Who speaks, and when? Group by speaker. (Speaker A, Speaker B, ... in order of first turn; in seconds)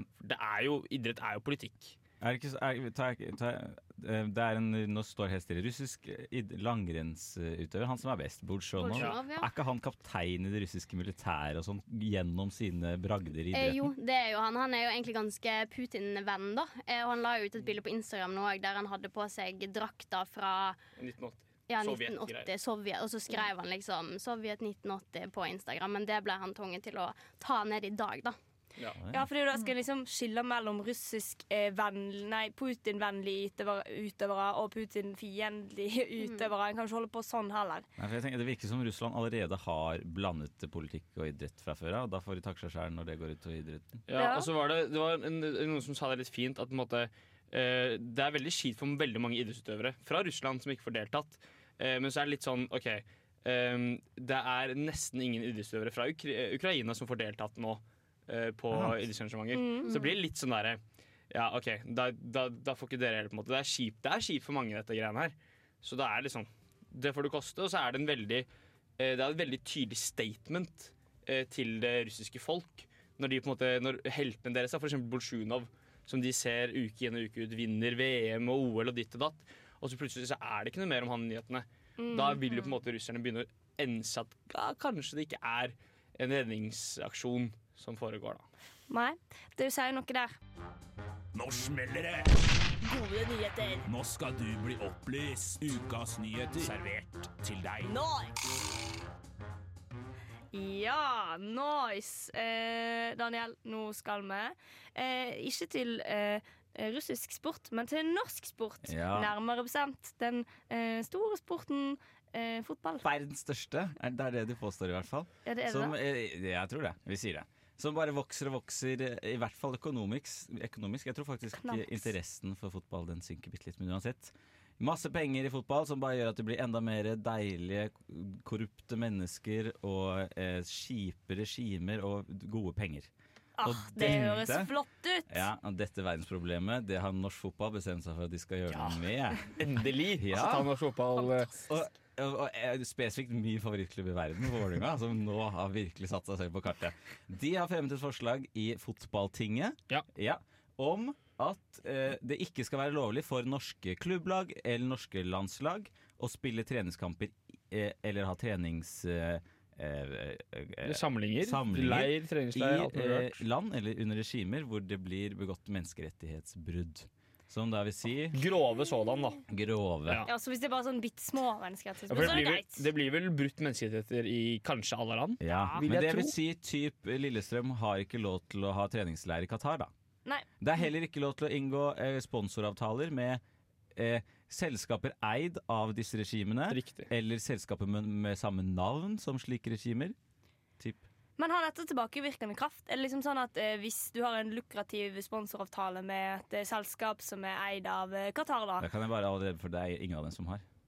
Speaker A: 0.2-2.0, 21.0-22.5, 44.1-60.8, 61.3-68.5, 69.0-88.5, 139.5-141.5, 160.8-163.4, 168.3-169.4, 172.1-176.3, 186.7-187.1
Speaker B: 2.2-13.9, 38.0-44.0, 58.7-59.0, 108.8-109.3, 113.0-133.1, 133.6-134.7, 135.3-139.6, 140.2-140.7, 141.7-168.4, 169.5-170.2, 175.4-179.9, 180.6-183.4, 183.9-190.2, 190.8-191.1, 198.8-200.6
Speaker C: 8.8-9.5, 13.5-20.8, 21.7-28.4
Speaker D: 29.1-37.9, 44.1-44.5, 59.5-60.1, 82.0-82.4, 88.9-90.4, 92.8-93.9, 97.8-98.3, 100.5-113.1, 115.5-116.0, 121.5-122.1, 133.6-135.5, 170.3-172.9, 175.5-175.8, 191.4-198.9
Speaker E: 91.3-92.5, 93.8-98.0